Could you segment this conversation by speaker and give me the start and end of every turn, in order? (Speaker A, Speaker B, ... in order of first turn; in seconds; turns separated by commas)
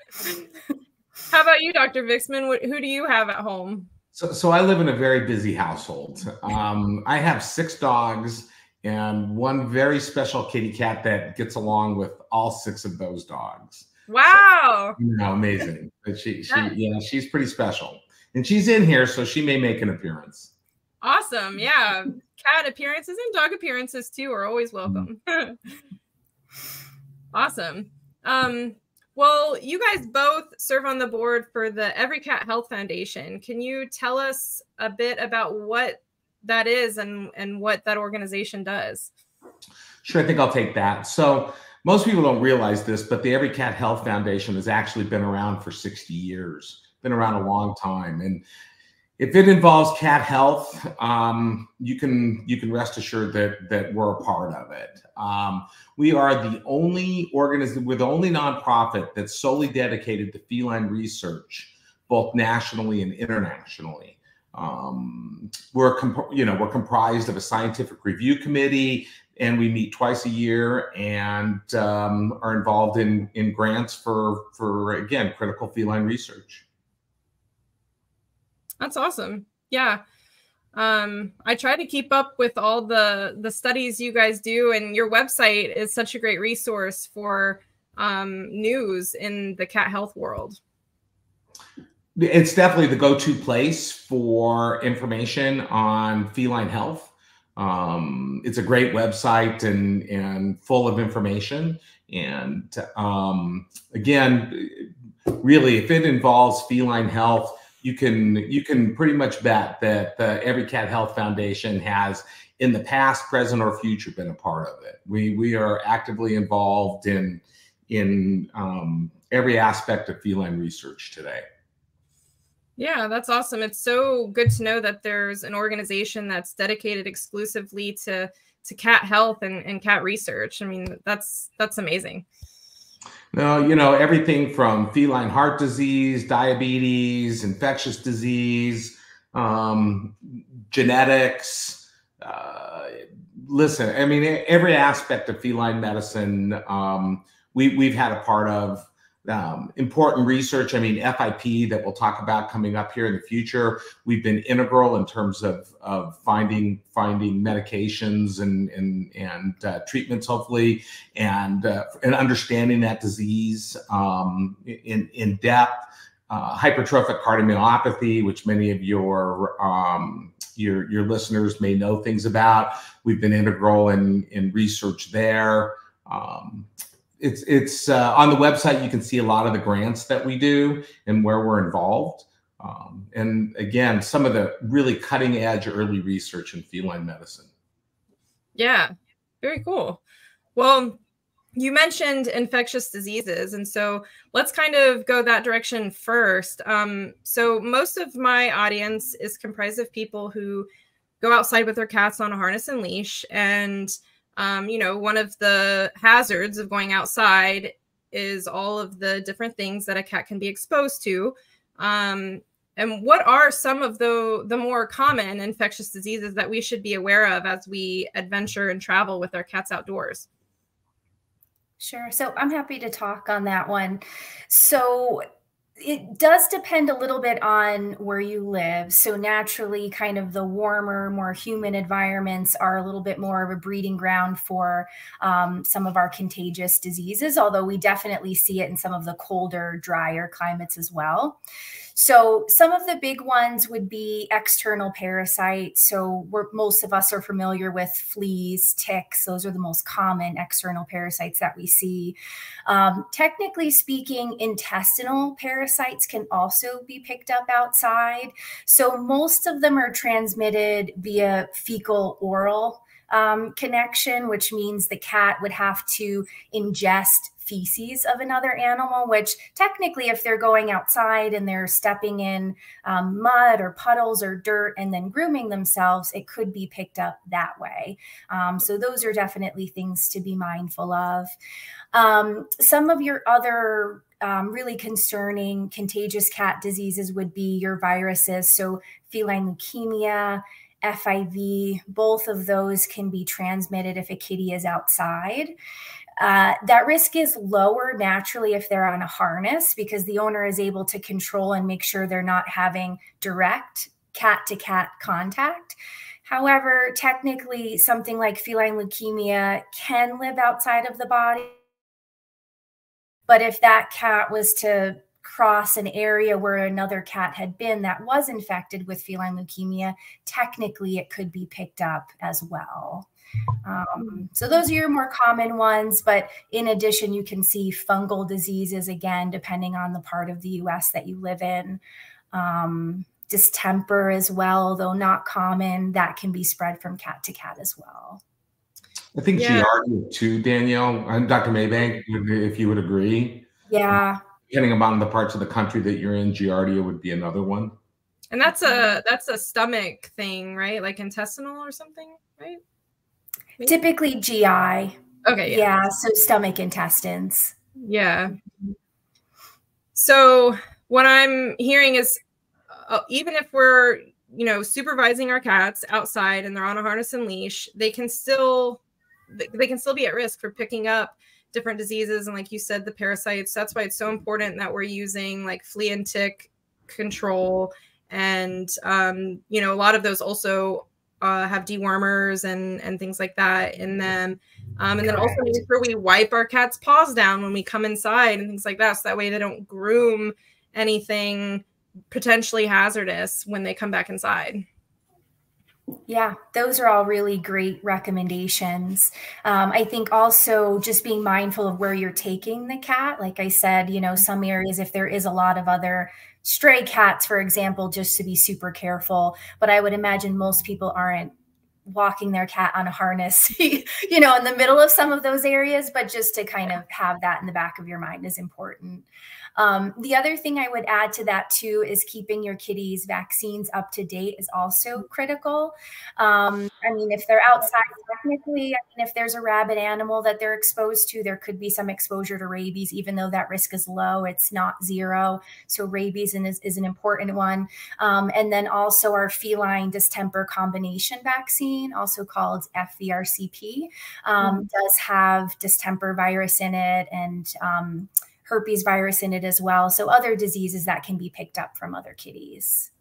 Speaker A: 1.3-3.9, Speaker B: 4.1-13.9, Speaker A: 14.1-15.0, Speaker B: 15.0-20.5, Speaker A: 21.0-25.6, Speaker A: 27.3-39.1, Speaker B: 40.0-48.4, Speaker B: 49.2-76.7, Speaker A: 78.8-80.0, Speaker A: 80.7-90.6, Speaker B: 92.2-121.4, Speaker A: 122.8-132.3, Speaker B: 133.3-187.5, Speaker A: 188.6-190.0, Speaker A: 190.6-191.0, Speaker A: 191.6-200.7, Speaker A: 201.2-220.3, Speaker C: 221.8-225.2, Speaker C: 225.8-241.4, Speaker C: 241.9-281.3, Speaker C: 281.9-295.6, Speaker C: 296.2-311.6, Speaker C: 313.3-323.1, Speaker C: 323.6-331.8, Speaker C: 332.3-338.2, Speaker B: 339.1-343.5, Speaker A: 339.4-339.7, Speaker C: 343.7-344.2, Speaker B: 344.5-347.7, Speaker A: 348.3-352.6, Speaker C: 353.6-357.6, Speaker A: 355.2-355.7, Speaker A: 357.8-358.4, Speaker A: 359.9-362.2, Speaker A: 362.7-394.6, Speaker C: 385.0-385.6, Speaker C: 396.1-411.3, Speaker C: 411.9-452.9